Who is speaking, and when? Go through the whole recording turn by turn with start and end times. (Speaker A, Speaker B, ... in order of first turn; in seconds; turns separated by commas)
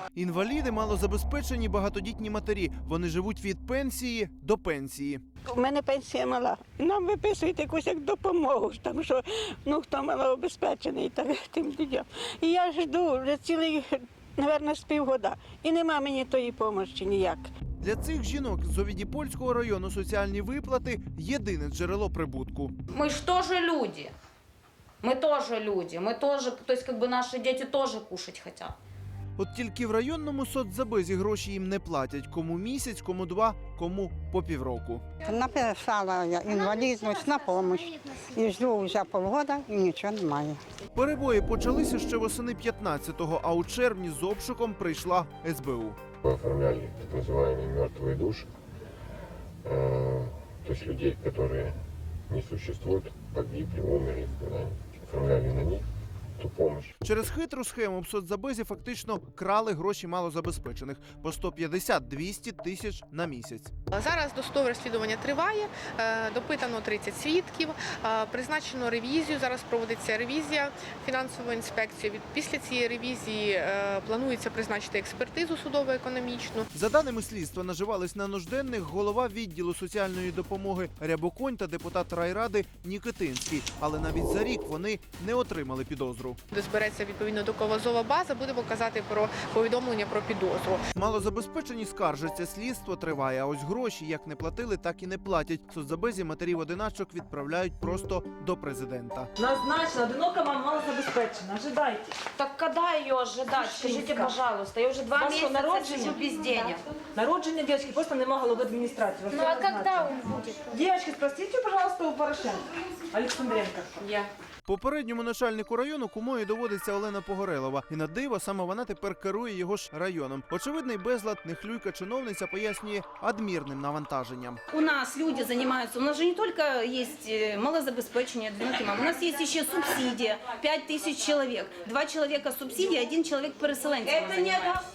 Speaker A: 0.1-5.2, Speaker B: 5.5-17.5, Speaker A: 17.8-22.7, Speaker C: 22.9-24.1, Speaker C: 25.0-28.8, Speaker A: 29.4-35.0, Speaker D: 35.3-40.6, Speaker A: 41.0-46.0, Speaker E: 46.2-48.5, Speaker E: 49.6-51.8, Speaker E: 52.3-55.9, Speaker E: 56.4-56.9, Speaker A: 57.0-63.7, Speaker F: 63.9-76.7, Speaker A: 76.7-86.4, Speaker F: 86.5-90.8, Speaker A: 91.0-99.3, Speaker G: 99.4-102.2, Speaker C: 102.4-106.8, Speaker G: 103.5-104.3, Speaker G: 105.2-114.1, Speaker C: 109.3-110.7, Speaker C: 114.0-114.3, Speaker A: 114.7-124.6, Speaker H: 124.7-134.8, Speaker C: 133.7-134.8